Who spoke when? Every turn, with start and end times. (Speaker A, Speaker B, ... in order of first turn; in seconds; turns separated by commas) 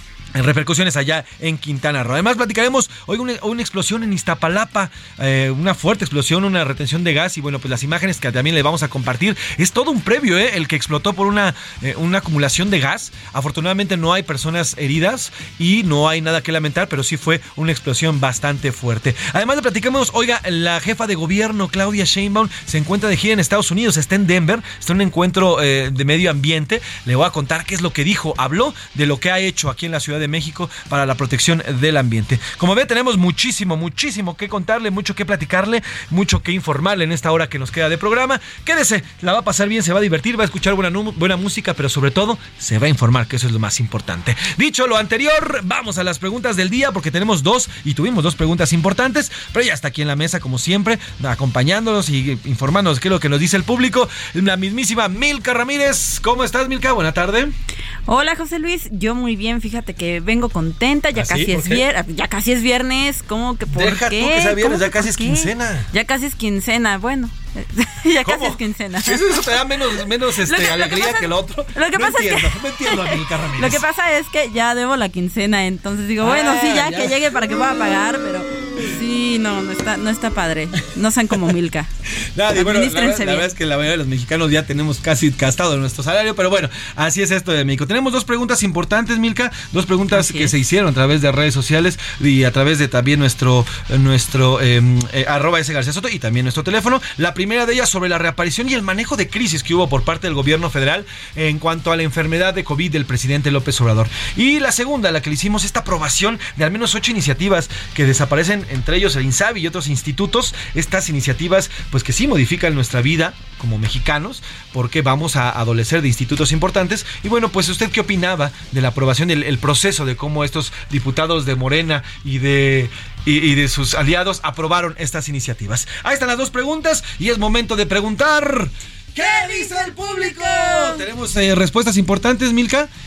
Speaker A: 0.3-57.5, Speaker B: 58.1-69.4, Speaker A: 61.1-61.8, Speaker A: 63.7-65.9, Speaker A: 68.2-73.8, Speaker B: 70.4-81.9, Speaker A: 76.2-77.7, Speaker A: 82.3-132.9, Speaker B: 82.5-83.5, Speaker B: 90.1-90.5, Speaker B: 129.2-131.0